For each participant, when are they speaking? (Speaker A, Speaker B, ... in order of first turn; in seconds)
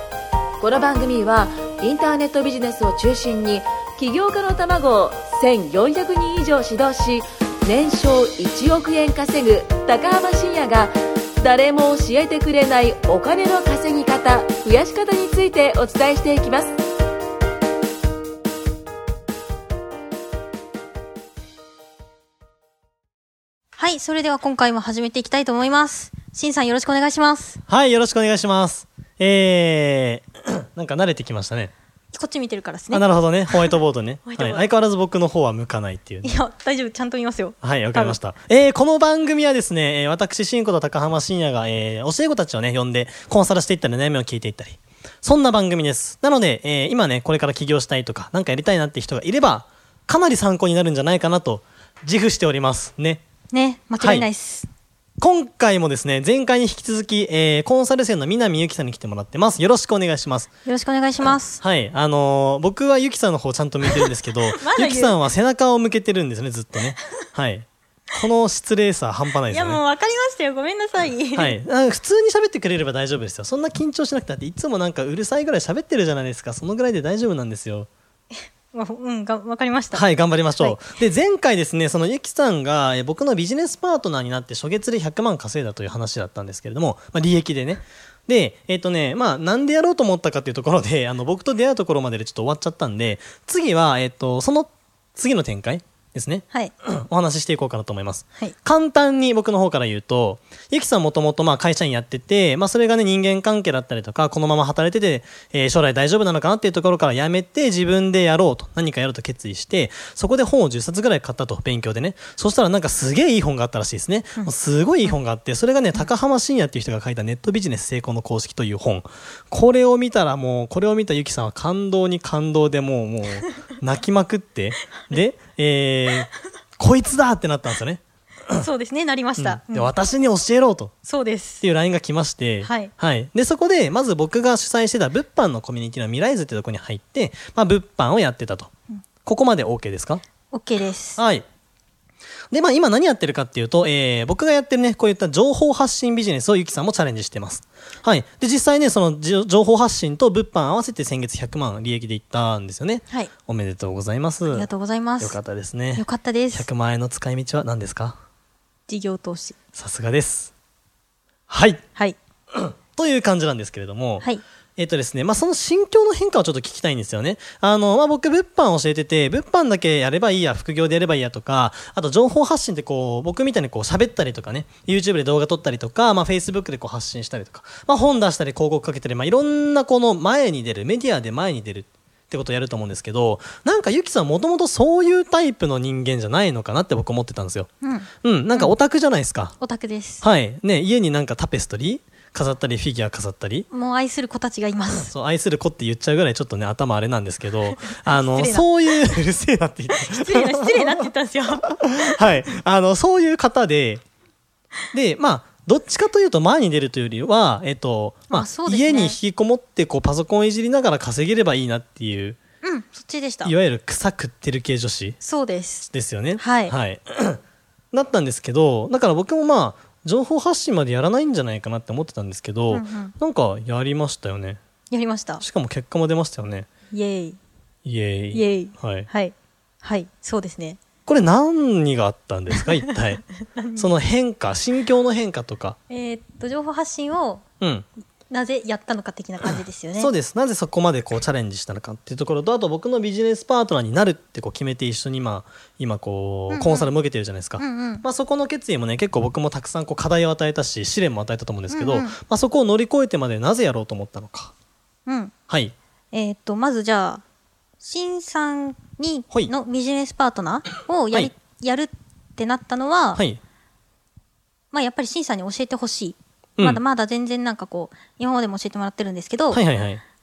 Speaker A: 0.6-16.8
Speaker B: 23.8-27.6, 32.1-34.7, 36.2-38.2, 53.5-54.7, 60.6-61.6, 63.9-65.2, 69.5-71.6, 78.7-80.1, 128.5-129.9, 131.0-131.6, 132.6-132.9, 140.5-141.2, 154.5-155.4, 155.9-156.7, 158.9-159.6, 187.8-188.7, 189.6-190.2, 193.7-195.1, 197.9-198.9, 199.9-202.2, 208.3-209.2, 212.6-213.5, 215.2-216.8, 222.7-223.1, 224.9-225.4, 226.9-227.4, 228.3-230.8, 233.5-233.9, 235.9-237.4, 238.3-240.1, 246.5-246.9, 247.6-248.0, 251.7-252.2, 255.1-255.3, 256.1-257.2, 257.8-263.2, 264.7-269.6
Speaker C: 27.7-31.7, 32.9-36.3, 37.6-53.2, 54.0-54.3, 55.2-60.5, 61.6-69.8, 71.3-77.9, 79.9-128.7, 129.4-130.9, 131.6-138.7, 139.2-140.2, 141.2-141.4, 142.5-154.7, 155.2-158.2, 159.7-160.5, 161.5-161.8, 162.5-164.2, 164.8-187.7, 188.2-189.5, 190.2-193.7, 195.0-201.1, 201.8-204.0, 204.9-212.4, 213.4-215.2, 215.9-217.4, 217.9-224.6, 225.4-226.7, 227.8-229.1, 231.1-235.8, 237.6-237.8, 240.0-254.5, 255.5-255.7, 263.1-263.4, 269.5-270.0